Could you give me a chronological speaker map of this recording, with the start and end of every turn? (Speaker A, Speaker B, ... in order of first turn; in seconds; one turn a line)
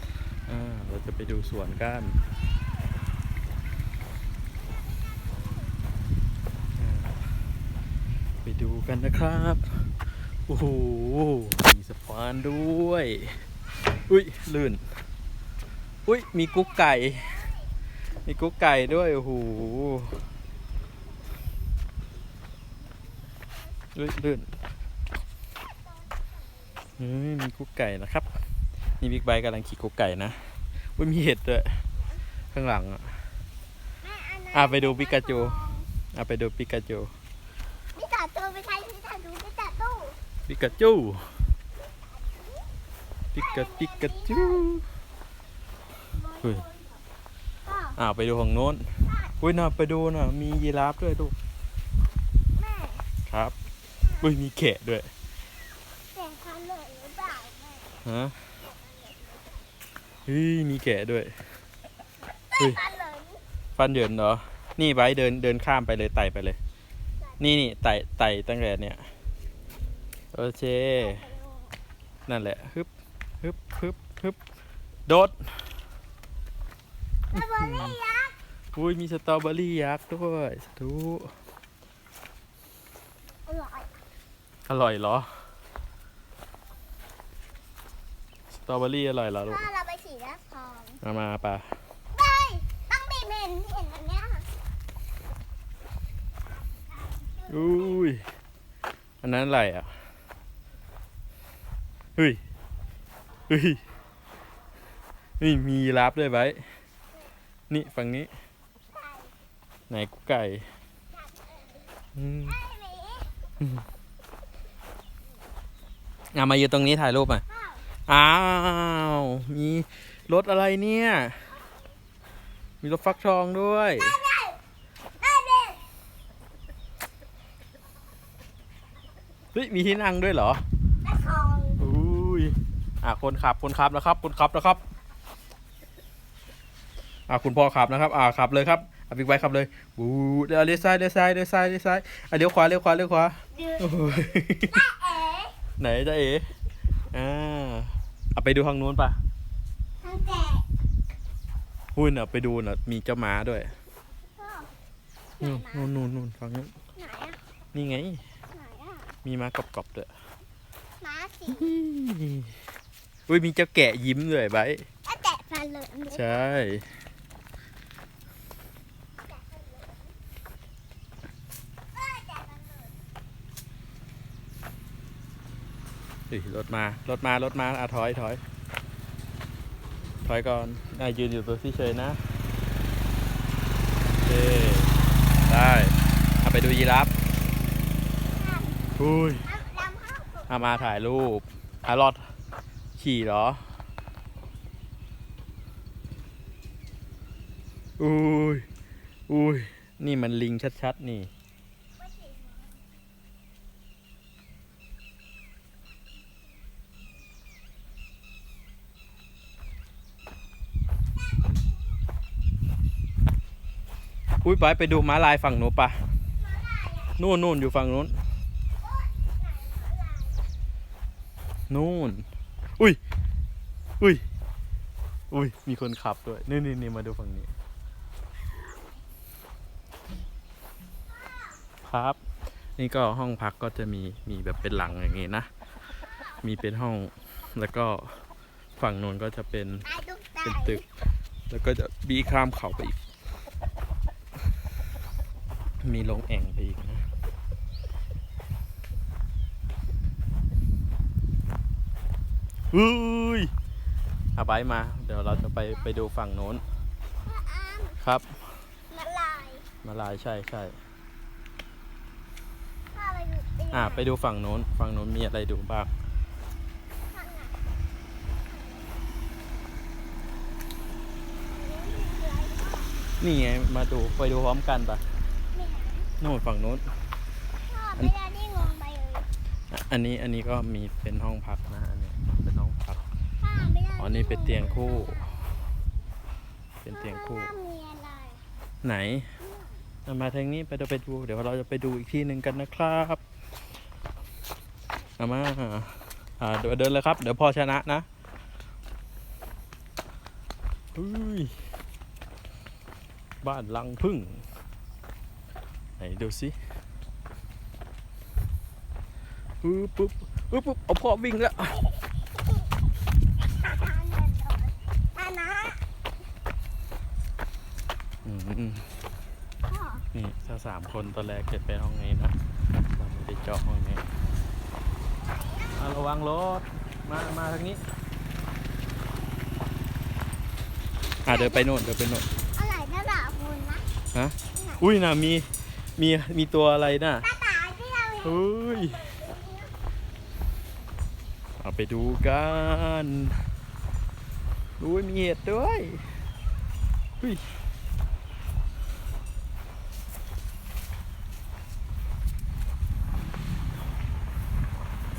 Speaker A: 0.3-2.2
Speaker B: 2.5-2.9
Speaker B: 4.7-5.7
Speaker A: 6.8-7.2
Speaker A: 8.4-13.4
Speaker A: 14.1-14.8
Speaker A: 16.1-17.5
Speaker B: 16.4-17.7
Speaker A: 18.2-20.2
Speaker A: 23.9-24.5
Speaker B: 25.9-26.9
Speaker A: 27.0-28.3
Speaker A: 29.0-30.4
Speaker A: 30.9-31.8
Speaker A: 32.5-33.2
Speaker B: 34.0-35.9
Speaker A: 34.5-35.6
Speaker A: 36.1-37.1
Speaker B: 37.9-40.2
Speaker A: 40.5-41.3
Speaker B: 41.9-42.7
Speaker A: 43.3-44.9
Speaker B: 43.4-44.7
Speaker B: 46.2-46.9
Speaker A: 46.4-46.6
Speaker B: 47.6-48.0
Speaker A: 48.0-51.3
Speaker B: 49.0-49.4
Speaker B: 52.5-53.0
Speaker A: 53.3-53.5
Speaker B: 54.0-54.3
Speaker A: 54.2-55.1
Speaker B: 56.1-57.9
Speaker A: 58.0-58.4
Speaker B: 58.6-59.6
Speaker A: 60.2-61.4
Speaker B: 62.5-63.4
Speaker A: 62.6-62.8
Speaker A: 63.8-66.6
Speaker A: 67.4-69.1
Speaker A: 70.3-71.2
Speaker B: 71.0-71.7
Speaker A: 72.3-72.9
Speaker A: 73.4-74.4
Speaker A: 75.1-75.7
Speaker B: 77.3-78.3
Speaker A: 77.3-78.0
Speaker A: 78.7-81.3
Speaker B: 83.5-83.9
Speaker A: 84.7-85.4
Speaker A: 88.5-89.6
Speaker B: 89.5-91.0
Speaker A: 91.0-91.8
Speaker B: 92.1-94.5
Speaker B: 97.0-98.0
Speaker A: 97.5-98.2
Speaker A: 99.2-99.9
Speaker A: 103.5-103.8
Speaker A: 105.4-106.7
Speaker A: 107.7-108.3
Speaker B: 108.9-109.3
Speaker A: 109.9-110.7
Speaker B: 111.1-113.3
Speaker A: 112.1-112.5
Speaker A: 116.3-117.4
Speaker B: 117.5-117.8
Speaker A: 118.1-121.5
Speaker A: 122.8-124.2
Speaker B: 124.0-124.6
Speaker B: 125.2-125.8
Speaker A: 129.5-130.6
Speaker B: 131.0-131.8
Speaker A: 131.8-134.8
Speaker A: 137.3-144.9
Speaker B: 143.5-145.5
Speaker A: 145.8-146.5
Speaker A: 147.1-149.2
Speaker B: 150.0-150.6
Speaker A: 151.9-153.7
Speaker B: 154.4-154.7
Speaker B: 155.4-155.9
Speaker A: 155.4-156.7
Speaker B: 156.9-157.4
Speaker A: 157.7-158.2
Speaker B: 158.5-159.1
Speaker A: 159.2-160.1
Speaker B: 161.0-161.7
Speaker A: 161.5-162.5
Speaker A: 163.3-164.9
Speaker B: 165.0-166.4
Speaker A: 166.1-166.9
Speaker B: 169.2-170.1
Speaker B: 171.9-173.0
Speaker A: 176.3-178.4
Speaker A: 180.2-182.2
Speaker A: 184.2-187.1
Speaker B: 188.2-190.9
Speaker A: 189.0-189.5
Speaker A: 190.5-192.3
Speaker A: 193.0-193.6
Speaker A: 198.0-198.7
Speaker A: 199.3-201.3
Speaker B: 202.0-202.8
Speaker B: 211.4-212.0
Speaker A: 214.4-216.0
Speaker B: 216.4-217.2
Speaker A: 217.2-218.2
Speaker B: 218.8-220.4
Speaker A: 221.7-222.3
Speaker A: 225.3-227.5
Speaker B: 231.1-231.6
Speaker A: 231.8-232.2
Speaker A: 232.8-235.5
Speaker B: 236.1-236.4
Speaker A: 236.4-238.2
Speaker A: 238.8-239.9
Speaker B: 239.8-240.8
Speaker A: 240.4-240.8
Speaker A: 241.5-243.0
Speaker A: 245.8-247.0
Speaker A: 252.7-253.5
Speaker A: 254.3-256.6
Speaker B: 257.2-258.0
Speaker A: 258.0-258.3
Speaker B: 258.9-259.7
Speaker A: 259.8-260.8
Speaker B: 262.9-264.1
Speaker A: 263.7-265.9
Speaker B: 267.0-267.6
Speaker B: 268.3-269.0
Speaker B: 271.5-272.9
Speaker A: 273.2-275.0
Speaker B: 275.5-276.1
Speaker A: 276.2-276.9
Speaker B: 277.7-279.3
Speaker A: 279.7-283.0
Speaker B: 283.4-285.3
Speaker A: 284.0-285.4
Speaker A: 286.8-287.5
Speaker B: 286.9-288.4
Speaker A: 288.8-289.3
Speaker B: 289.4-289.8
Speaker A: 290.1-293.2
Speaker A: 295.2-298.1
Speaker A: 300.9-301.6
Speaker A: 303.4-304.4
Speaker A: 306.0-306.5
Speaker A: 309.6-311.8
Speaker B: 313.4-315.8
Speaker A: 318.2-318.9
Speaker B: 319.7-320.1
Speaker A: 320.1-322.3
Speaker A: 322.9-324.0
Speaker B: 325.1-325.9
Speaker A: 325.8-327.8
Speaker A: 331.2-332.2
Speaker B: 331.3-331.7
Speaker B: 332.5-333.8
Speaker A: 334.1-337.2
Speaker B: 334.5-334.8
Speaker B: 337.2-339.7
Speaker A: 338.2-339.1
Speaker A: 341.6-343.4
Speaker A: 344.8-346.0